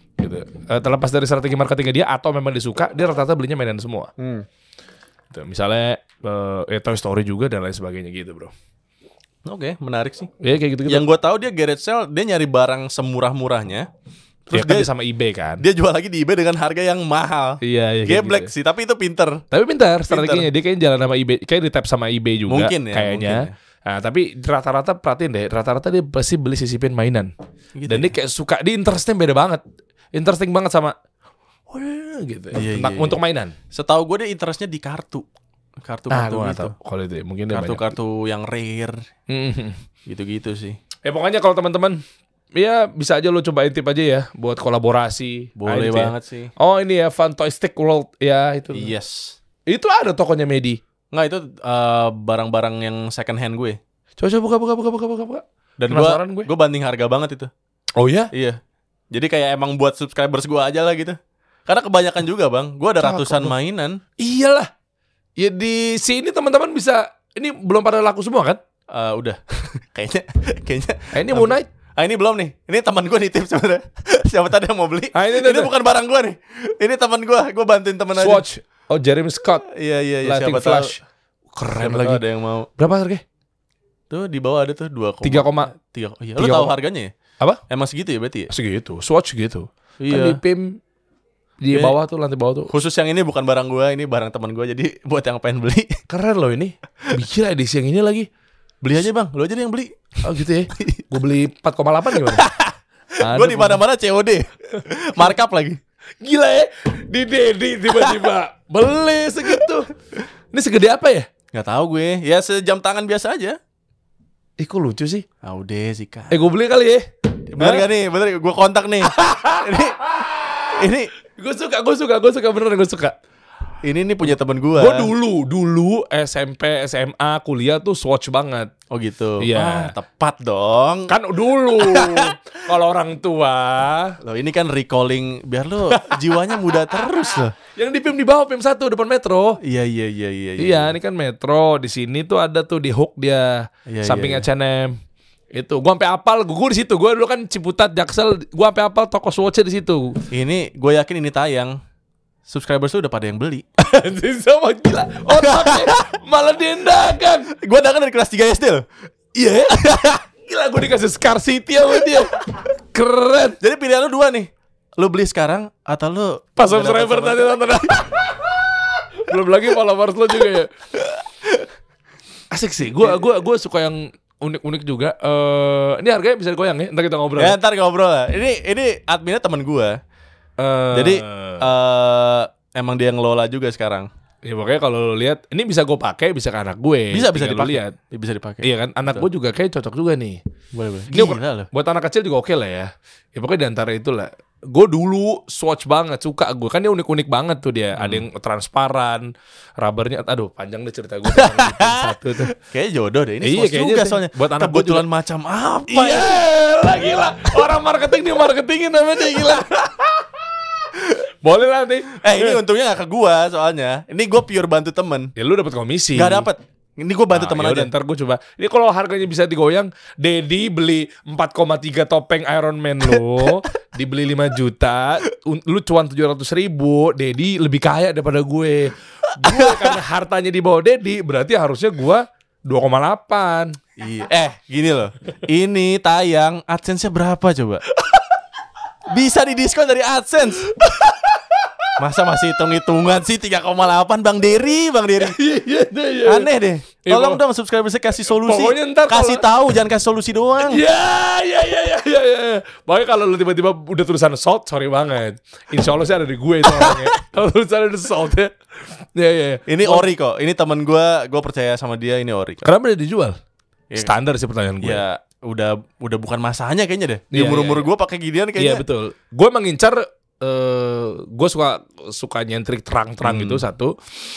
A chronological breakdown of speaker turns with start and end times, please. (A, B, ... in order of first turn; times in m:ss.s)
0:00.2-0:04.1 A
0:04.2-0:04.4 B
0:05.3-0:08.5 A
0:09.5-0:10.3 B
0:10.4-0:11.1 A
0:10.9-0:13.9 B
0:14.5-0:14.9 B
0:14.5-0:15.6 A
0:15.6-0:19.4 B
0:17.6-0:18.5 A
0:19.5-0:27.3 A
0:20.1-0:20.5 B
0:22.5-0:23.5 B
0:27.8-0:28.1 B
0:27.9-0:29.6 A
0:30.1-0:31.0 A
0:31.7-0:33.5 A
0:32.5-0:33.2 B
0:33.7-0:35.2 B
0:35.8-0:36.7 B
0:36.1-0:37.9 A
0:37.5-0:39.0 B
0:39.3-0:39.8 A
0:40.1-0:40.8 B
0:41.0-0:42.0 A
0:42.6-0:48.9 A
0:45.6-0:46.5 B
0:48.7-0:49.4 B
0:49.7-0:50.8 A
0:51.1-0:53.8 B
0:54.2-0:56.5 A
0:55.8-0:57.5 B
0:58.0-0:58.3 A
0:58.3-0:58.6 B
0:59.1-1:04.0 B
1:03.0-1:03.5 A
1:04.2-1:04.7 A
1:05.4-1:08.6 A
1:08.9-1:18.4 B
1:11.1-1:11.7 A
1:15.1-1:15.7 A
1:18.2-1:19.6 A
1:19.7-1:21.0 B
1:20.2-1:21.0 A
1:21.6-1:22.2 A
1:21.8-1:22.7 B
1:22.8-1:23.2 A
1:24.1-1:27.1 B
1:25.2-1:25.7 A
1:26.4-1:26.8 A
1:27.7-1:28.5 B
1:28.5-1:30.8 A
1:30.0-1:30.4 B
1:31.6-1:32.7 A
1:32.7-1:36.0 B
1:36.1-1:38.3 A
1:38.8-1:41.0 B
1:40.2-1:42.5 A
1:42.2-1:45.8 B
1:43.2-1:43.8 A
1:46.2-1:49.9 A
1:50.5-1:51.3 A
1:51.5-1:53.6 B
1:54.6-1:55.2 A
1:55.4-1:56.4 B
1:56.3-1:57.9 A
1:57.5-2:00.0 B
1:59.0-2:03.2 A
2:00.8-2:01.1 B
2:03.8-2:05.1 B
2:04.8-2:08.7 A
2:08.9-2:11.1 B
2:09.4-2:09.9 A
2:11.1-2:14.2 A
2:11.8-2:12.4 B
2:14.2-2:17.5 B
2:15.9-2:19.6 A
2:19.6-2:20.9 B
2:20.6-2:25.0 A
2:23.9-2:24.4 B
2:25.5-2:30.2 A
2:30.3-2:31.8 B
2:32.5-2:33.7 B
2:33.8-2:37.5 A
2:35.4-2:36.1 B
2:37.5-2:38.8 B
2:39.4-2:43.6 A
2:43.6-2:47.9 B
2:46.6-2:50.7 A
2:52.5-2:57.6 A
2:57.4-3:00.0 B
3:00.6-3:01.7 A
3:00.9-3:04.1 B
3:04.4-3:08.0 A
3:07.1-3:09.3 B
3:08.6-3:10.4 A
3:10.7-3:11.7 B
3:11.1-3:22.5 A
3:18.0-3:18.2 B
3:21.3-3:26.4 B
3:23.4-3:25.0 A
3:25.9-3:32.6 A
3:32.1-3:35.3 B
3:35.4-3:36.5 A
3:36.2-3:37.9 B
3:37.3-3:53.8 A
3:49.5-3:49.9 B
3:54.0-3:57.8 B
3:57.9-3:58.4 A
3:59.1-4:00.7 B
4:00.7-4:01.9 A
4:02.0-4:05.4 B
4:05.2-4:06.5 A
4:06.3-4:10.8 B
4:07.0-4:07.4 A
4:08.2-4:09.5 A
4:10.6-4:20.1 A
4:16.7-4:17.1 B
4:19.7-4:22.7 B
4:22.6-4:23.4 A
4:23.9-4:24.2 B
4:24.0-4:25.0 A
4:24.8-4:28.8 B
4:27.3-4:27.9 A
4:28.6-4:34.0 A
4:33.2-4:33.6 B